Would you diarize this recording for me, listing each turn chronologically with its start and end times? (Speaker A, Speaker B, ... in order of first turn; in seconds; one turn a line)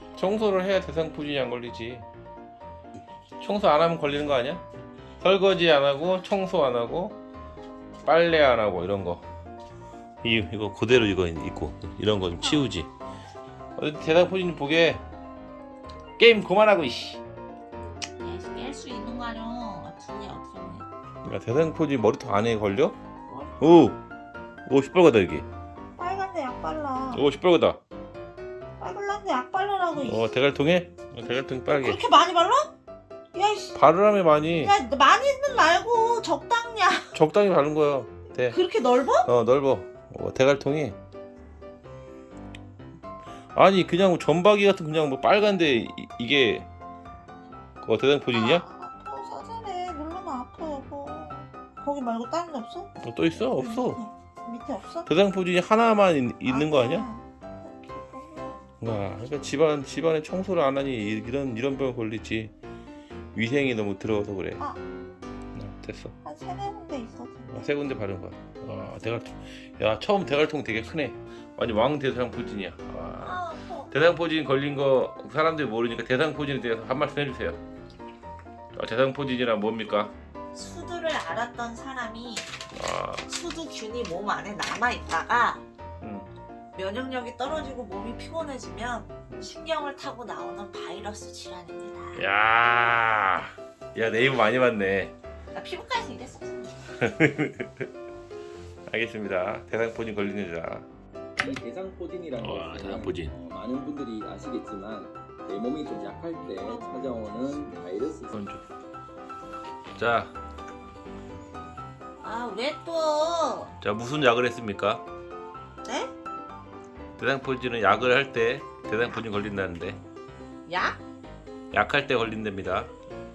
Speaker A: 0.1-2.1
Speaker A: 3.4-4.6
Speaker A: 5.2-7.2
Speaker A: 8.1-9.2
Speaker A: 10.2-12.9
Speaker A: 13.8-15.0
Speaker A: 16.2-17.2
Speaker B: 18.1-20.9
Speaker A: 21.2-22.9
Speaker B: 23.3-23.6
Speaker A: 23.6-24.0
Speaker A: 24.7-25.5
Speaker B: 26.0-27.2
Speaker A: 27.1-27.8
Speaker B: 28.8-30.3
Speaker A: 30.0-32.0
Speaker B: 31.7-32.7
Speaker B: 33.3-33.8
Speaker A: 33.7-34.8
Speaker B: 34.5-37.1
Speaker A: 37.1-38.6
Speaker B: 38.5-39.3
Speaker A: 39.2-41.0
Speaker A: 43.5-46.7
Speaker A: 47.8-48.6
Speaker B: 48.3-52.9
Speaker A: 53.0-54.0
Speaker B: 53.4-55.1
Speaker A: 55.1-57.1
Speaker B: 56.5-58.6
Speaker A: 58.8-62.5
Speaker A: 63.3-64.6
Speaker A: 65.6-66.2
Speaker B: 66.2-67.7
Speaker A: 67.5-77.6
Speaker B: 73.2-73.9
Speaker A: 78.7-80.1
Speaker B: 80.5-82.5
Speaker A: 82.7-83.3
Speaker B: 83.3-85.6
Speaker A: 86.0-86.3
Speaker B: 86.8-92.2
Speaker A: 92.2-95.1
Speaker B: 95.5-96.8
Speaker A: 97.0-97.9
Speaker A: 98.9-100.9
Speaker C: 101.4-108.4
Speaker A: 102.4-103.3
Speaker B: 106.6-107.4
Speaker A: 108.3-108.6
Speaker A: 110.0-110.3
Speaker B: 112.2-113.7
Speaker A: 113.8-115.0
Speaker A: 117.2-120.0
Speaker B: 120.7-121.0
Speaker A: 121.7-122.9